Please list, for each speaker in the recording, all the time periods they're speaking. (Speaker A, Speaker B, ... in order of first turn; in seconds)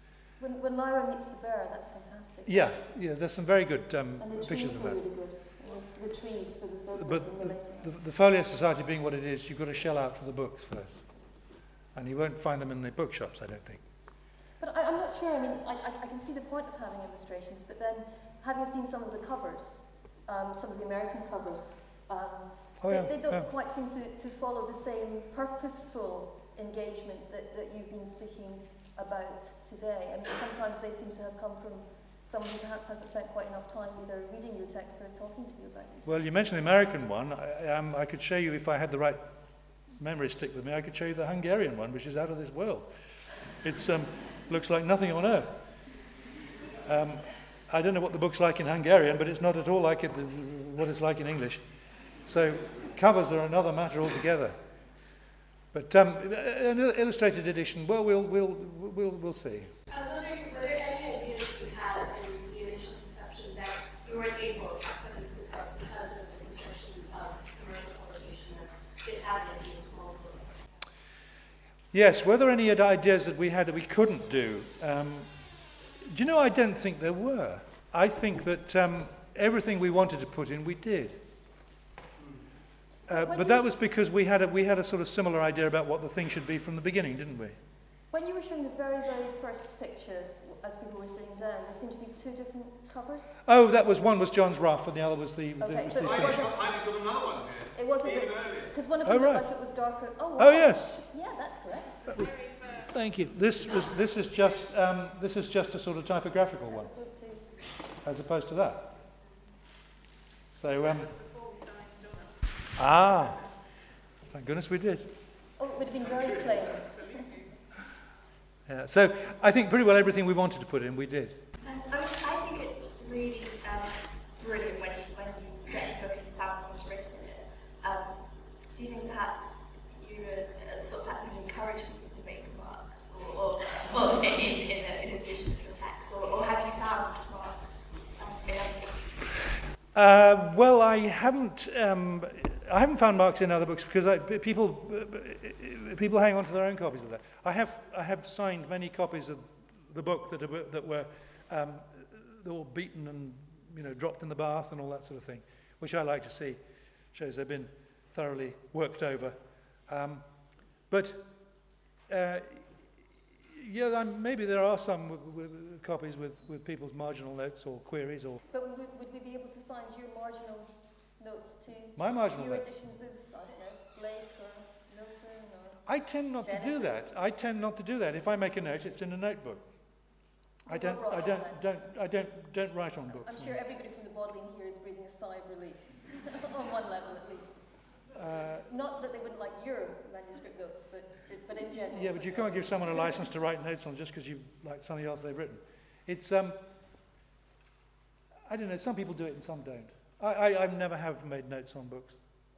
Speaker A: 0.4-2.7, 4.2-7.9, 14.6-36.2, 83.1-83.7, 88.1-93.4, 95.6-96.6, 97.7-102.0, 106.7-107.4, 115.6-117.3, 168.5-175.9, 176.4-177.1, 180.7-181.6, 183.1-187.6, 188.7-193.3
Speaker B: 2.5-5.0, 6.9-11.0, 11.9-13.8, 22.8-23.5, 36.0-39.3, 40.0-42.9, 43.6-45.5, 46.8-51.6, 52.2-54.5, 55.7-59.7, 71.9-75.3, 76.0-81.2, 83.1-87.6, 93.4-96.5, 99.0-99.5, 100.4-101.0, 102.1-106.9, 108.0-108.9, 110.5-111.1, 112.8-113.4, 114.3-115.1, 118.7-121.4, 139.9-156.6, 157.1-160.2, 160.9-161.3, 162.1-162.8, 163.5-168.4, 171.9-172.7, 175.8-179.6, 180.7-183.6, 188.1-188.7, 191.9-196.6, 198.5-202.2
Speaker C: 59.9-70.6, 121.6-139.2
Speaker D: 96.0-98.7
Speaker E: 102.0-102.9, 110.7-113.4, 116.0-117.6